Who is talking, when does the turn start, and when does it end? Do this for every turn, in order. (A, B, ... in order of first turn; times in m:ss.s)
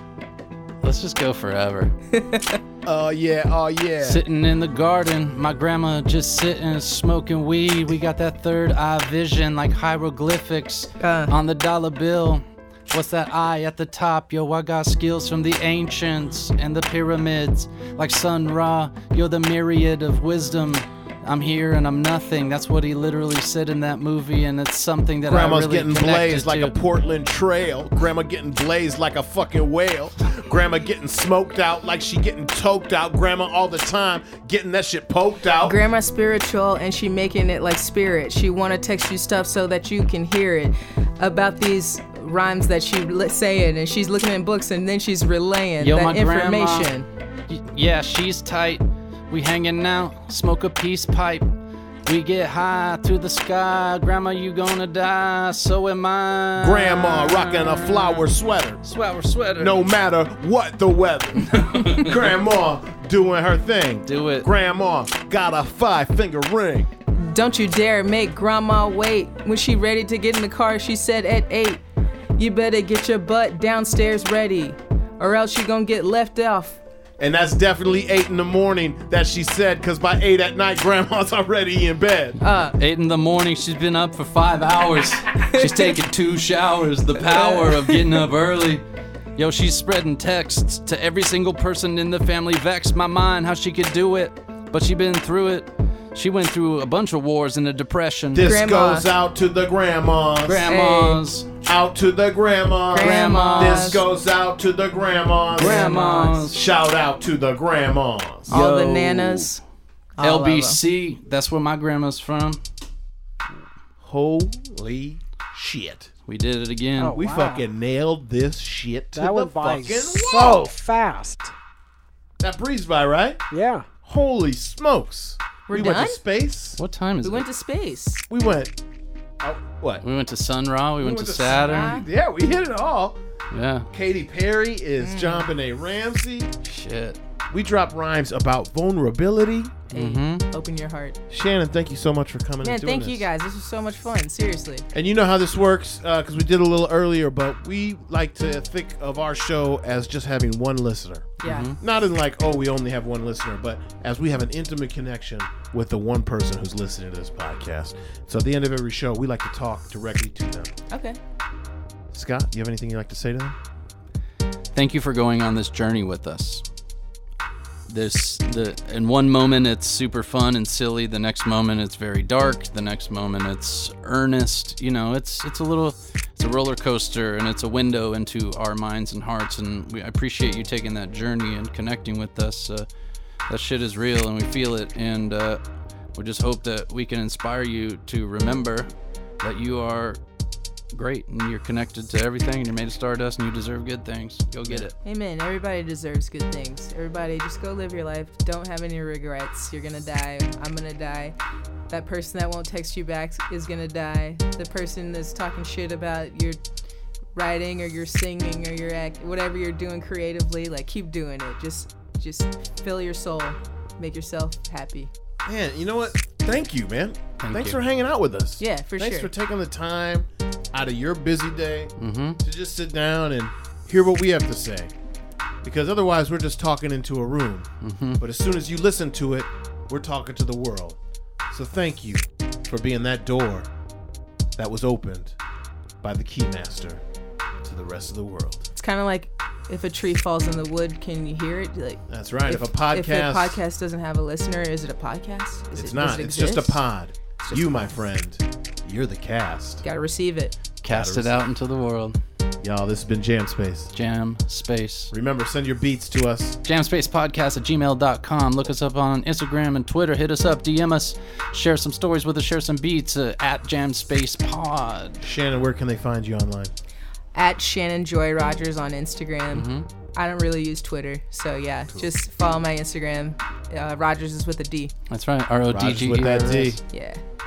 0:00.8-0:01.9 A
0:02.1-0:02.6 B
0:02.8-0:04.2 C
0:04.0-0:26.8 A
0:11.0-0:11.3 B
0:25.3-0:35.8 C
0:35.6-0:47.1 B
0:45.8-0:46.9 A
0:47.5-0:51.5 A
0:52.1-0:58.2 A
0:56.6-0:58.8 C
0:58.8-0:59.9 A
0:59.6-1:06.9 C
1:01.4-1:02.3 A
1:04.1-1:04.4 A
1:07.1-1:11.8 B
1:12.4-1:16.8 B
1:17.2-1:22.4 C
1:22.4-1:22.8 B
1:22.8-1:28.8 A
1:25.4-1:25.9 B
1:27.2-1:28.2 B
1:29.4-1:38.5 A
1:38.3-1:40.7 C
1:38.4-1:39.1 B
1:40.4-1:41.5 A
1:40.7-1:41.2 B
1:41.6-1:45.9 C
1:42.9-1:44.0 B
1:43.0-1:44.0 A
1:45.6-1:46.6 A
1:45.6-1:46.5 B
1:46.5-1:48.6 C
1:48.5-1:49.5 A
1:48.5-1:49.6 B
1:50.2-1:50.8 B
1:50.2-1:52.6 A
1:54.0-1:56.1 C
1:56.3-1:57.2 A
1:57.0-1:57.7 D
1:57.1-2:00.7 C
1:59.1-2:01.5 D
2:02.4-2:03.4 C
2:03.5-2:03.9 D
2:04.0-2:06.8 C
2:05.7-2:06.2 B
2:06.8-2:07.4 A
2:07.2-2:08.3 B
2:08.3-2:08.7 C
2:09.4-2:10.0 C
2:10.0-2:12.0 A
2:11.0-2:13.2 C
2:11.6-2:12.1 B
2:13.5-2:13.9 A
2:13.9-2:16.5 C
2:15.0-2:15.5 B
2:16.6-2:17.2 A
2:17.5-2:19.9 C
2:19.9-2:21.2 B
2:19.9-2:20.4 A
2:21.3-2:23.3 C
2:22.6-2:24.9 B
2:24.9-2:40.7 C
2:31.4-2:31.7 B
2:31.4-2:31.8 A
2:40.9-2:41.2 B
2:42.1-2:43.6 C
2:44.7-2:46.6 A
2:47.9-3:02.9 A
3:03.5-3:05.6 A
3:06.1-3:10.2 A
3:10.9-3:14.9 A
3:14.6-3:14.9 C
3:15.0-3:21.4 B
3:21.9-3:26.6 B
3:27.4-3:35.1 B
3:35.4-3:44.9 C
3:37.4-3:37.8 A
3:38.6-3:39.3 B
3:42.0-3:42.4 A
3:45.6-3:51.0 C
3:47.8-3:48.2 A
3:51.5-3:53.7 C
3:54.6-3:55.4 C
3:56.0-3:57.0 C
3:57.6-3:58.7 C
3:58.8-4:06.8 B
4:02.1-4:03.6 C
4:05.8-4:09.8 C
4:07.4-4:07.9 B
4:09.8-4:10.6 B
4:10.8-4:12.2 A
4:10.9-4:11.4 C
4:12.6-4:13.9 C
4:13.9-4:15.1 A
4:15.1-4:16.6 C
4:16.6-4:25.2 A
4:25.2-4:26.7 C
4:27.4-4:34.9 B
4:29.5-4:29.9 A
4:35.1-4:36.8 A
4:35.7-4:36.8 C
4:36.9-4:37.2 B